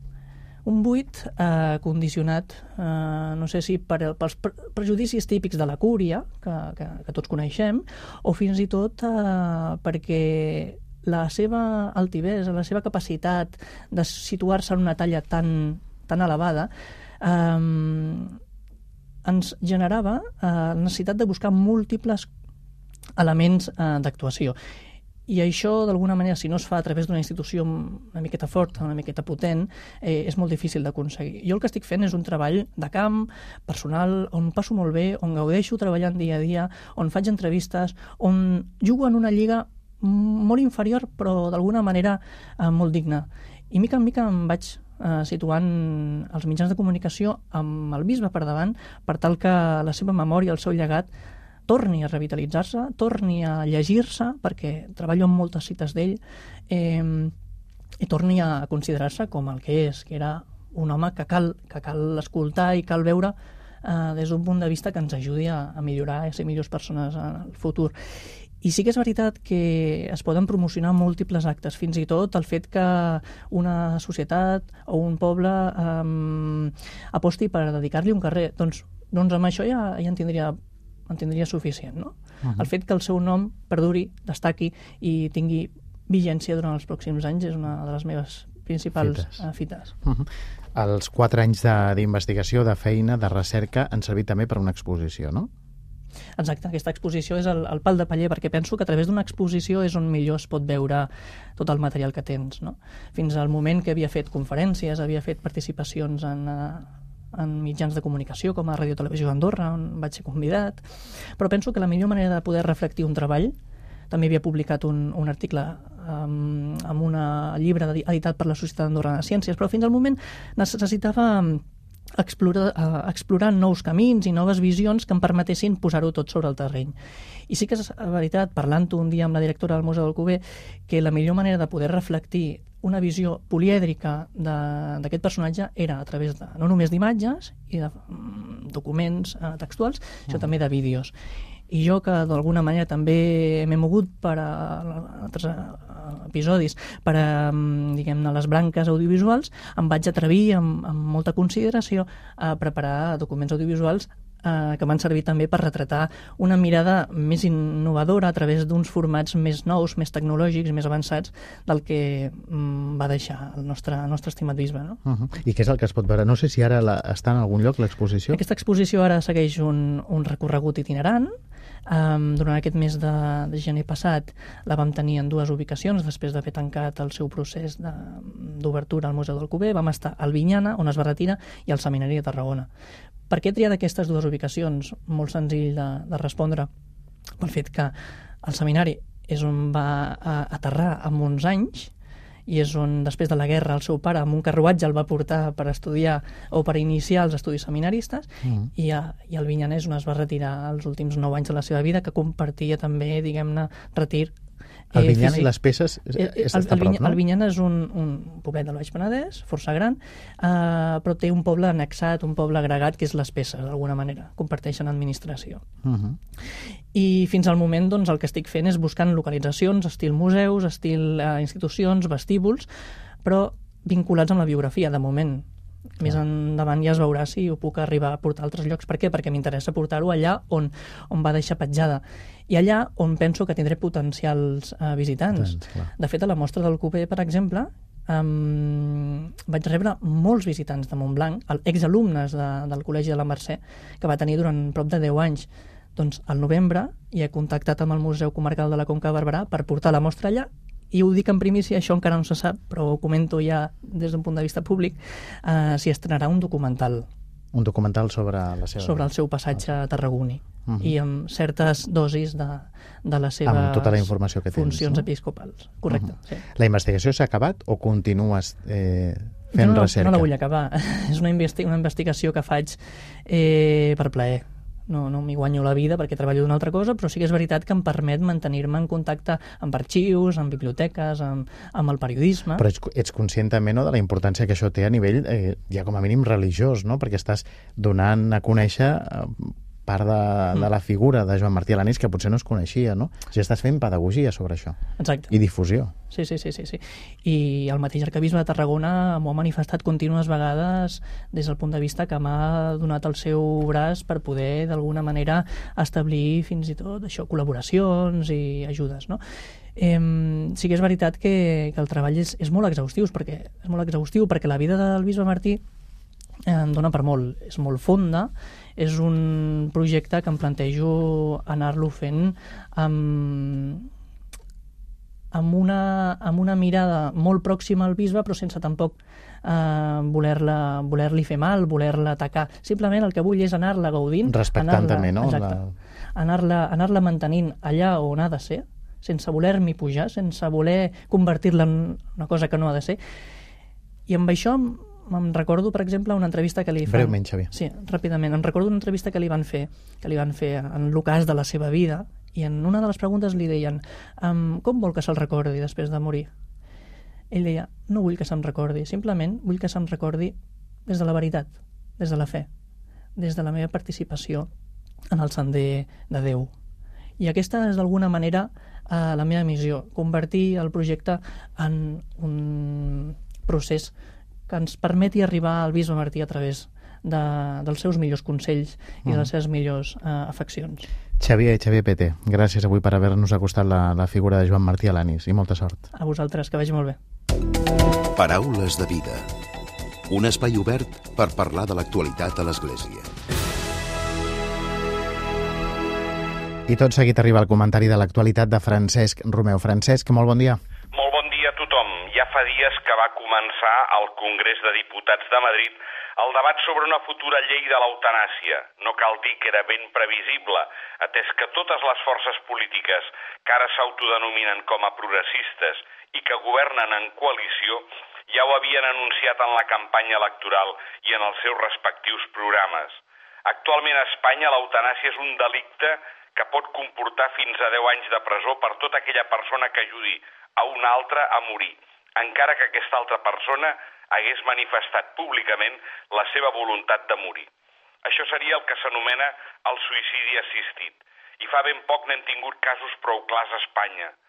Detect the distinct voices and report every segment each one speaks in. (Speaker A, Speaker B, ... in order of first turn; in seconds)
Speaker A: 0.6-16.7, 17.2-18.4, 19.2-22.3, 23.2-24.6, 25.3-51.1, 51.7-57.3, 58.0-67.9, 68.6-80.6, 81.1-89.9, 96.4-110.8, 111.4-113.5, 114.1-121.6, 122.2-126.9, 127.5-141.1, 141.7-165.0, 168.3-171.3, 171.9-182.7, 183.3-186.7, 187.4-191.9, 192.5-204.3, 204.9-205.5, 206.1-215.6, 216.9-222.7, 223.2-225.4, 226.0-257.1, 258.8-266.4, 269.5-282.6, 295.0-295.3, 296.1-309.2, 309.8-315.6, 316.5-323.9, 325.3-335.6, 336.1-343.0, 344.1-356.3, 357.3-360.3, 360.9-362.5, 363.1-364.5, 365.1-366.5, 367.2-373.9, 374.5-380.9, 385.9-387.0
Speaker B: 89.0-89.4, 90.0-95.5, 165.0-168.4, 198.4-198.7, 204.9-207.2, 215.8-216.2, 235.3-235.9, 257.5-259.0, 260.7-260.9, 263.4-265.1, 265.9-270.3, 282.6-294.8, 295.3-295.9, 334.2-335.7, 346.9-347.5, 381.2-385.9, 396.7-400.6
Speaker C: 388.1-389.3, 390.1-393.1
Speaker D: 400.9-437.5, 438.0-444.1